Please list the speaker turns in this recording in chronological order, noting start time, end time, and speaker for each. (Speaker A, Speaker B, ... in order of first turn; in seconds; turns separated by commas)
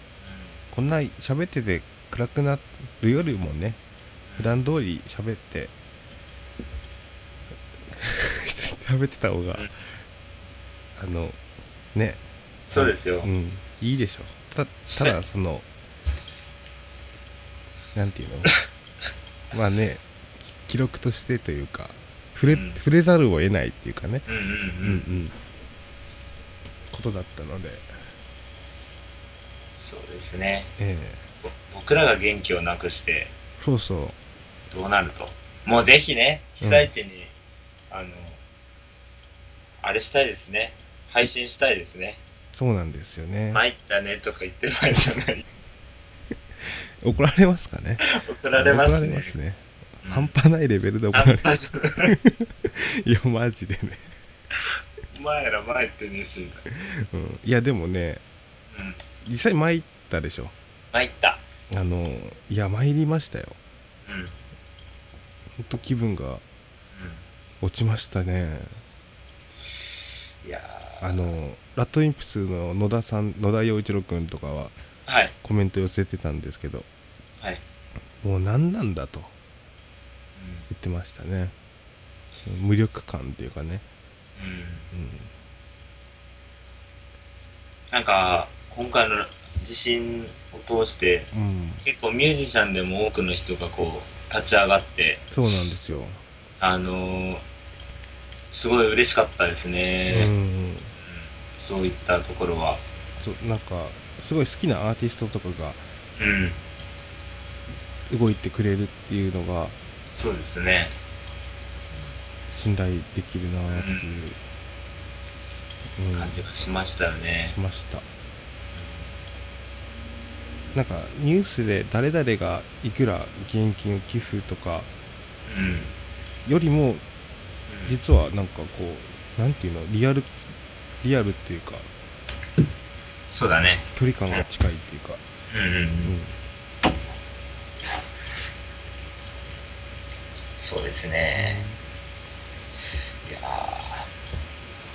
Speaker A: 0.2-0.6, Speaker B: 0.7-3.8, Speaker A: 4.3-4.6, Speaker B: 4.4-5.7, Speaker B: 7.9-9.7, Speaker B: 10.9-11.4, Speaker B: 11.9-12.2, Speaker A: 12.7-13.3, Speaker B: 12.7-15.7, Speaker A: 14.9-15.2, Speaker B: 17.9-18.5, Speaker B: 19.5-24.2, Speaker A: 22.4-22.8, Speaker A: 24.3-25.1, Speaker B: 24.8-25.4, Speaker B: 26.9-27.9, Speaker A: 29.8-30.7, Speaker B: 30.8-31.2, Speaker A: 31.4-33.3, Speaker B: 33.6-34.1, Speaker A: 34.7-37.3, Speaker B: 36.6-36.9, Speaker A: 37.9-38.4, Speaker A: 39.8-42.2, Speaker B: 42.5-43.6, Speaker A: 43.5-45.5, Speaker B: 47.0-48.0, Speaker A: 48.0-49.4, Speaker B: 48.6-54.1, Speaker A: 50.0-50.4, Speaker A: 51.1-52.1, Speaker A: 55.1-56.7, Speaker B: 56.7-58.2, Speaker A: 58.7-59.0, Speaker B: 59.2-60.5, Speaker A: 60.9-61.4, Speaker B: 61.7-63.6, Speaker A: 64.0-64.3, Speaker B: 65.6-66.4, Speaker A: 66.9-67.2, Speaker B: 67.6-68.8, Speaker A: 69.6-71.4, Speaker B: 71.0-74.7, Speaker A: 75.1-75.3, Speaker B: 75.4-76.9, Speaker B: 78.2-79.3, Speaker A: 80.4-80.7, Speaker B: 80.7-81.5, Speaker B: 82.4-83.8, Speaker A: 84.4-84.9, Speaker B: 84.9-85.3, Speaker A: 87.9-91.3, Speaker B: 91.3-91.8, Speaker A: 91.8-95.3, Speaker B: 95.3-96.2, Speaker A: 96.6-97.4, Speaker A: 98.5-100.3, Speaker B: 100.1-100.9, Speaker A: 101.0-102.8, Speaker B: 103.2-105.8, Speaker A: 106.2-106.6, Speaker B: 108.1-109.8, Speaker A: 110.1-111.0, Speaker B: 112.5-114.4, Speaker A: 113.7-114.1, Speaker B: 116.0-116.4, Speaker A: 116.1-117.6, Speaker B: 117.5-118.0, Speaker A: 118.7-119.1, Speaker B: 120.7-124.9, Speaker A: 125.5-125.9, Speaker B: 126.5-127.0, Speaker A: 127.7-128.0, Speaker B: 127.9-130.3, Speaker B: 131.0-131.9, Speaker A: 133.3-134.4, Speaker B: 133.9-135.2, Speaker A: 135.5-136.2, Speaker B: 136.0-136.4, Speaker A: 140.6-141.6, Speaker B: 141.3-141.8, Speaker A: 142.7-144.1